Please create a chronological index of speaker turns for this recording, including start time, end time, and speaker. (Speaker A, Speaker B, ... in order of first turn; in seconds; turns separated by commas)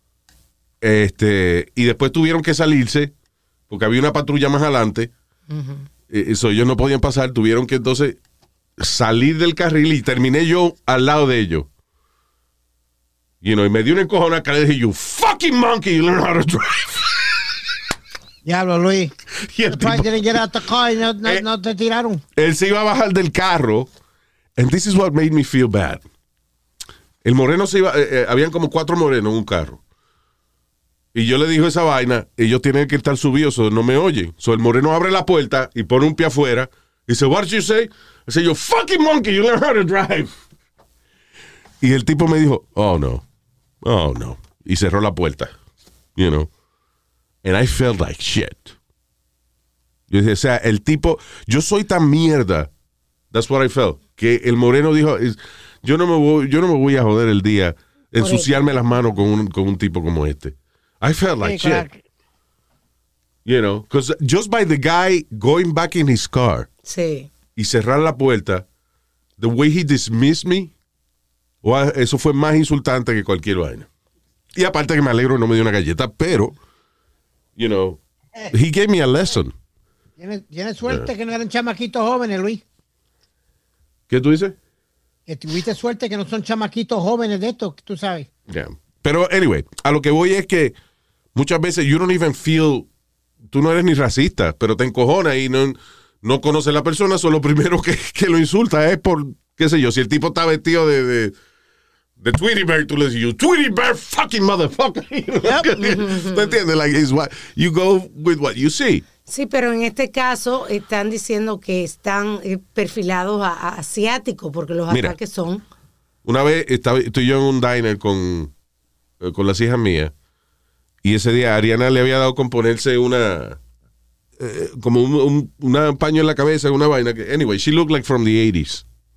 Speaker A: 0.8-3.1, Speaker A: 3.7-5.1, Speaker B: 5.5-5.9, Speaker A: 6.1-8.2, Speaker A: 8.8-11.7, Speaker A: 13.4-17.5, Speaker C: 18.4-19.1, Speaker A: 19.4-20.3, Speaker C: 19.7-22.2, Speaker A: 22.4-23.9, Speaker A: 24.6-26.0, Speaker A: 27.2-29.8, Speaker A: 31.1-40.3, Speaker A: 41.8-43.2, Speaker A: 43.8-45.5, Speaker A: 46.1-46.5, Speaker A: 47.4-48.7, Speaker A: 50.1-52.7, Speaker A: 53.3-61.9, Speaker B: 58.2-58.7, Speaker C: 61.4-62.0, Speaker A: 63.4-66.7, Speaker B: 66.8-67.3, Speaker A: 67.5-68.6, Speaker A: 69.4-70.7, Speaker A: 71.6-73.9, Speaker A: 74.5-76.5, Speaker A: 77.5-78.0, Speaker A: 78.5-79.5, Speaker C: 80.2-82.6, Speaker A: 80.8-81.1, Speaker A: 84.1-84.5, Speaker C: 85.3-88.3, Speaker A: 88.5-90.8, Speaker A: 91.3-92.9, Speaker A: 93.5-101.3, Speaker A: 102.2-109.0, Speaker B: 105.8-106.5, Speaker B: 109.3-115.6, Speaker A: 114.9-115.2, Speaker A: 116.2-118.5, Speaker A: 119.2-120.1, Speaker A: 121.0-123.6, Speaker A: 124.4-128.8